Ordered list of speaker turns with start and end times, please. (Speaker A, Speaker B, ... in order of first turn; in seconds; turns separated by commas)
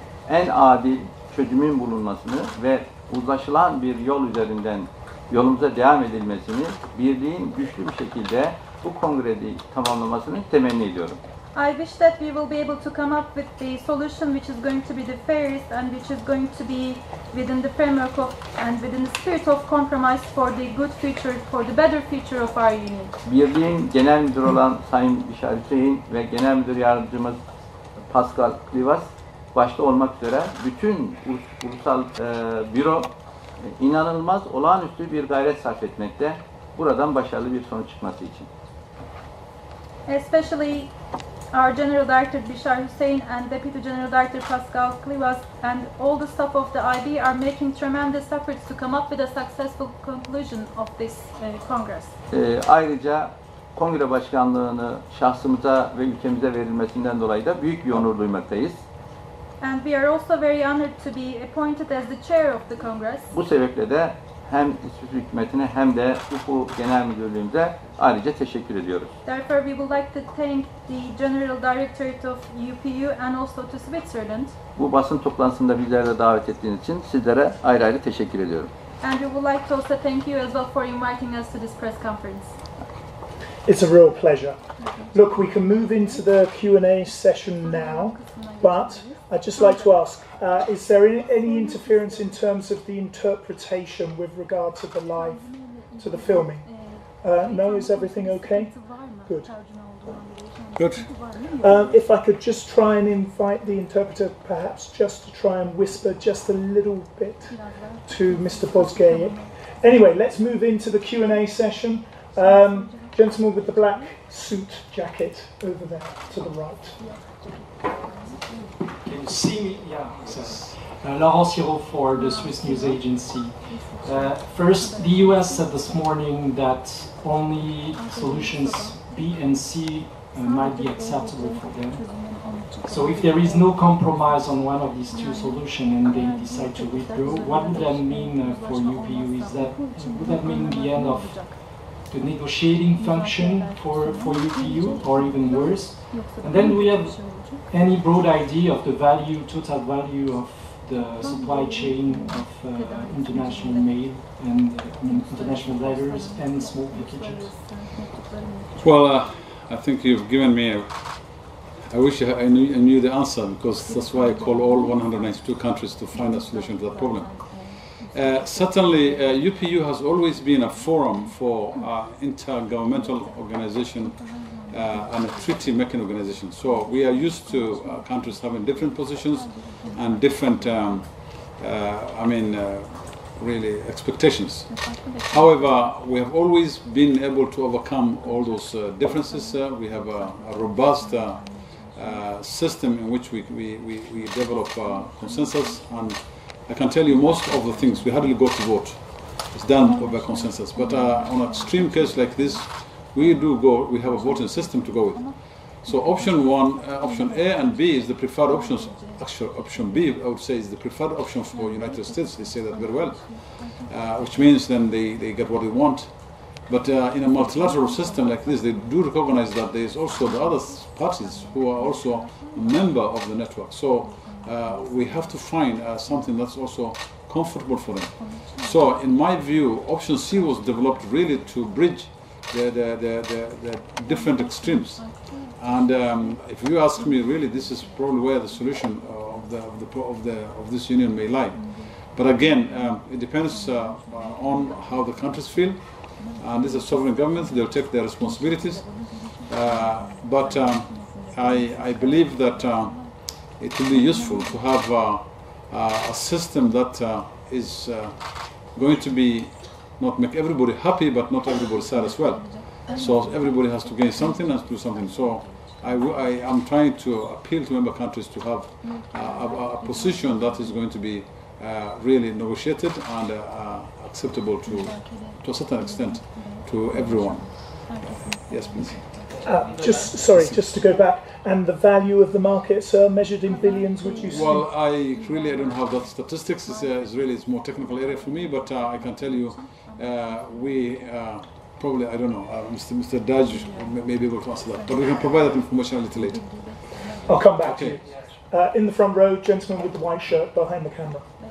Speaker A: 0.3-11.2, Speaker B: 11.6-23.1, Speaker A: 23.2-27.4, Speaker A: 28.0-38.5, Speaker B: 40.1-40.9, Speaker B: 41.5-52.1, Speaker A: 52.3-58.8, Speaker B: 59.6-63.3, Speaker A: 63.3-69.2, Speaker B: 69.2-74.6, Speaker A: 74.8-78.7, Speaker B: 79.0-82.6, Speaker C: 83.7-84.6, Speaker C: 85.1-99.5, Speaker D: 100.8-101.1, Speaker C: 101.6-117.1, Speaker E: 119.0-157.8, Speaker D: 158.8-280.8, Speaker C: 279.4-284.7, Speaker D: 284.2-297.0, Speaker C: 297.3-301.3, Speaker D: 297.6-298.0